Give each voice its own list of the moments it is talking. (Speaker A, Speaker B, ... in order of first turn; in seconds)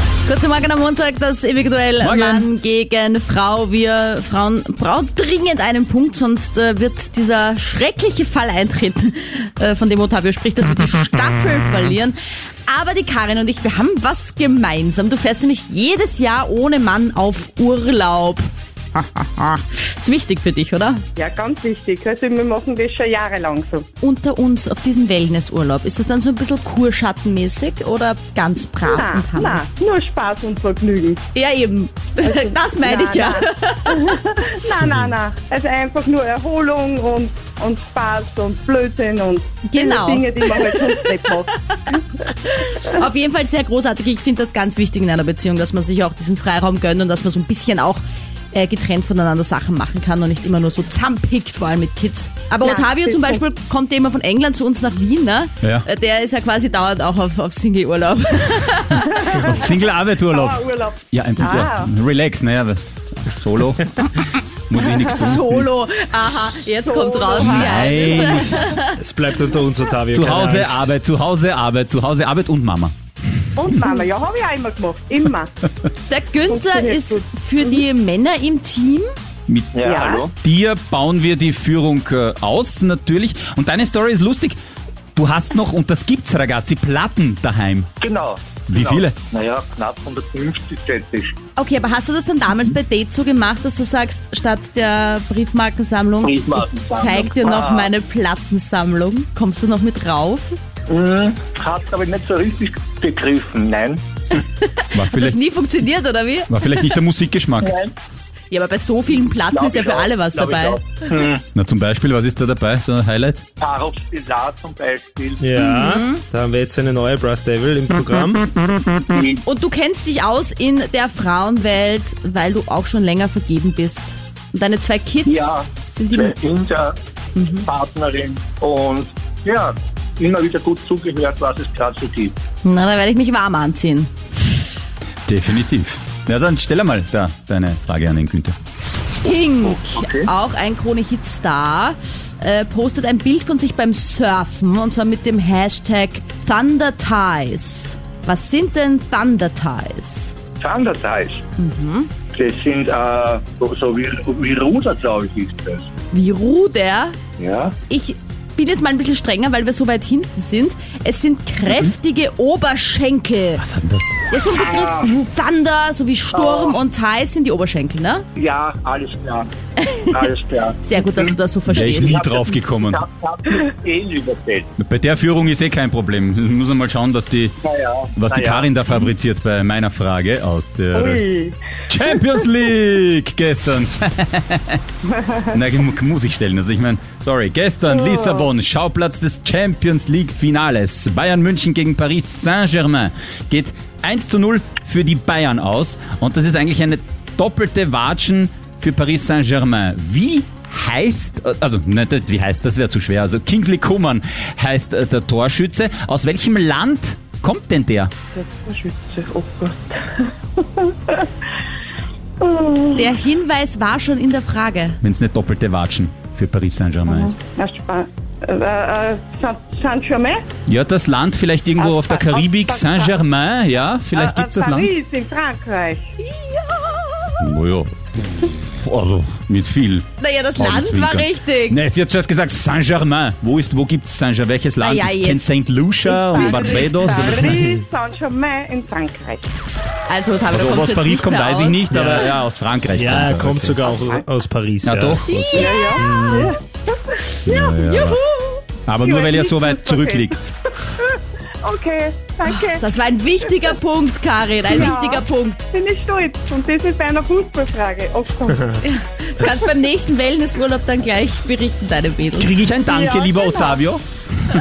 Speaker A: 0.2-12.2, 12.7-21.0, 24.0-29.6, 31.3-34.0, 39.7-59.5, 65.0-69.0, 76.1-79.1, 91.6-100.5, 104.3-106.9, 108.5-111.2, 115.6-116.2, 119.5-126.3, 127.3-127.7, 132.6-134.1, 139.2-150.3, 151.6-152.1, 156.1-157.2, 157.9-163.6, 164.3-168.2, 169.8-170.2, 170.8-172.2, 213.0-215.0, 226.3-227.4, 230.2-231.8, 234.8-235.5, 236.1-237.2, 240.1-241.9, 245.3-245.9, 252.7-255.6, 258.8-262.7
Speaker B: 2.0-2.5, 59.3-64.2, 64.7-65.7, 67.4-68.7, 70.1-72.9, 79.5-84.6, 85.1-87.9, 88.7-89.2, 104.9-105.4, 106.5-107.8, 111.5-113.5, 135.2-138.6, 163.6-164.2, 171.7-173.0, 174.8-177.6, 178.2-181.2, 181.9-184.8, 185.4-208.1, 215.0-217.4, 220.7-224.9, 227.4-237.7, 240.5-243.9, 244.8-245.7, 247.4-248.2, 248.8-250.5, 262.3-264.0
Speaker C: 21.2-23.8, 28.8-31.2, 32.2-42.0, 52.6-53.4, 59.1-59.6, 60.3-61.9, 66.9-68.8, 73.6-75.5, 76.5-77.8, 79.8-80.3, 180.9-181.6, 187.9-188.5, 208.3-211.3, 212.4-213.1, 217.1-220.4, 221.8-223.2, 224.1-226.1, 236.2-239.4, 243.8-244.2, 245.5-250.3, 250.9-252.8, 254.7-258.8, 262.9-263.8
Speaker D: 68.9-70.9, 115.4-118.8, 241.9-242.3, 242.9-246.6
Speaker E: 79.8-80.3, 88.0-91.3, 96.2-97.9, 100.9-104.0, 107.6-107.9, 109.5-111.4, 113.6-115.4, 119.1-119.4, 125.2-127.0, 127.6-132.4, 139.7-140.3, 150.6-151.4, 152.3-155.9, 157.4-157.8, 164.5-165.1, 166.3-166.8, 168.3-169.5, 170.1-174.7, 177.6-178.7